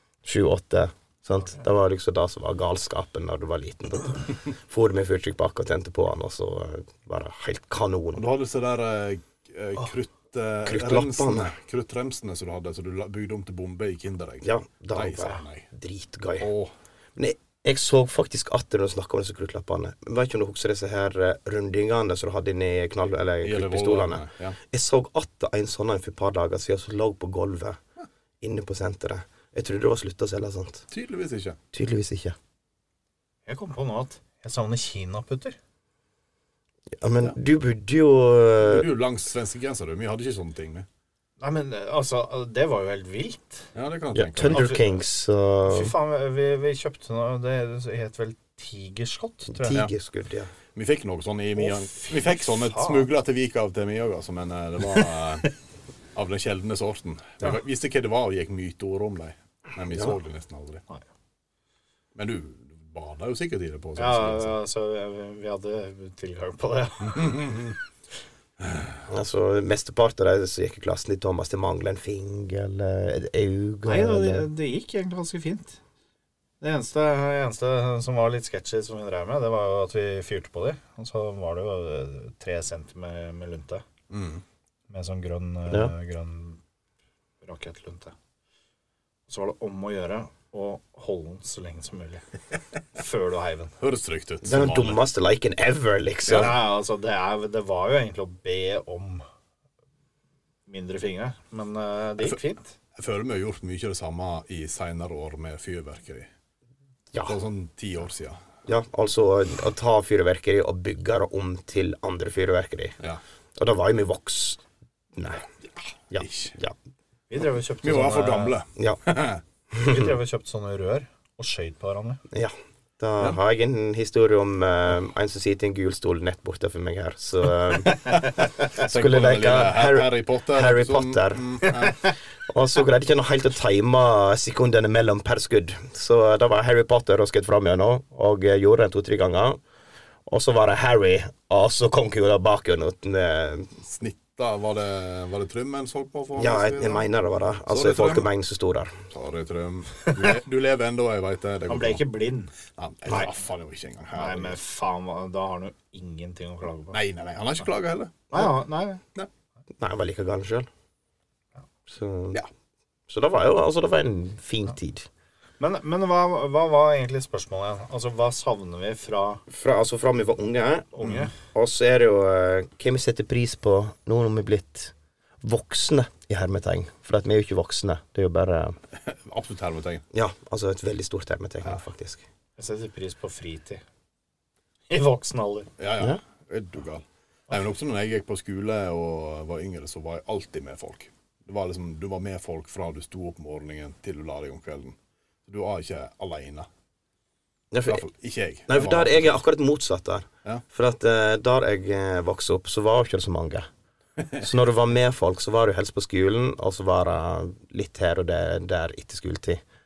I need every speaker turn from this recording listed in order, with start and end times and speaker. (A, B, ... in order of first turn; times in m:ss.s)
0:00.2-0:08.2 A
0:08.1-0:15.7 B
0:10.6-0:11.5 A
0:14.4-0:16.5 A
0:16.4-0:16.7 B
0:17.2-0:27.8 A
0:23.4-0:24.6 B
0:28.4-0:30.8 A
0:30.9-0:31.6 B
0:31.7-0:32.4 A
0:33.4-0:35.6 C
0:37.0-0:38.9 A
0:38.6-0:40.8 B
0:41.4-0:43.7 C
0:43.7-0:44.7 B
0:44.1-0:45.9 A
0:44.4-0:45.0 C
0:45.6-0:49.8 C
0:49.5-0:50.5 A
0:50.7-0:55.5 B
0:51.6-0:53.1 C
0:56.1-1:00.8 B
1:02.1-1:04.5 B
1:04.0-1:07.6 C
1:07.1-1:07.7 B
1:08.6-1:09.0 B
1:09.1-1:14.5 A
1:13.8-1:15.8 C
1:16.6-1:23.8 C
1:24.1-1:24.4 B
1:24.9-1:26.6 C
1:27.4-1:28.1 C
1:29.3-1:32.2 C
1:32.9-1:33.7 C
1:33.8-1:35.0 B
1:34.4-1:36.6 A
1:36.3-1:36.6 B
1:36.3-1:39.2 C
1:40.7-1:42.7 C
1:43.0-1:46.3 B
1:47.2-1:48.4 B
1:48.6-1:53.0 A
1:53.6-1:54.6 A
1:55.1-1:55.4 A
1:56.1-1:56.8 A
1:56.1-1:56.6 B
1:57.3-1:58.6 C
1:57.8-1:59.4 B
1:59.7-2:00.1 A
1:59.8-2:02.2 C
2:02.3-2:08.0 A
2:08.7-2:12.0 B
2:08.8-2:11.4 A
2:12.5-2:19.6 A
2:20.2-2:23.7 A
2:23.8-2:27.0 B
2:26.3-2:28.9 A
2:27.6-2:28.3 B
2:29.1-2:32.0 B
2:30.1-2:30.4 C
2:31.7-2:32.5 C
2:32.7-2:34.6 B
2:34.1-2:37.0 C
2:36.9-2:38.5 B
2:38.3-2:39.0 C
2:39.8-2:40.7 A
2:41.9-2:42.4 A
2:43.1-2:45.1 A
2:45.6-2:49.4 C
2:49.5-2:58.8 A
2:51.0-2:51.3 C
2:59.0-3:00.0 B
3:00.1-3:02.2 A
3:02.6-3:03.8 C
3:04.9-3:05.7 C
3:05.8-3:15.0 B
3:15.5-3:16.7 B
3:17.7-3:18.0 A
3:17.8-3:19.4 B
3:18.7-3:23.7 A
3:24.2-3:24.4 B
3:24.4-3:29.6 A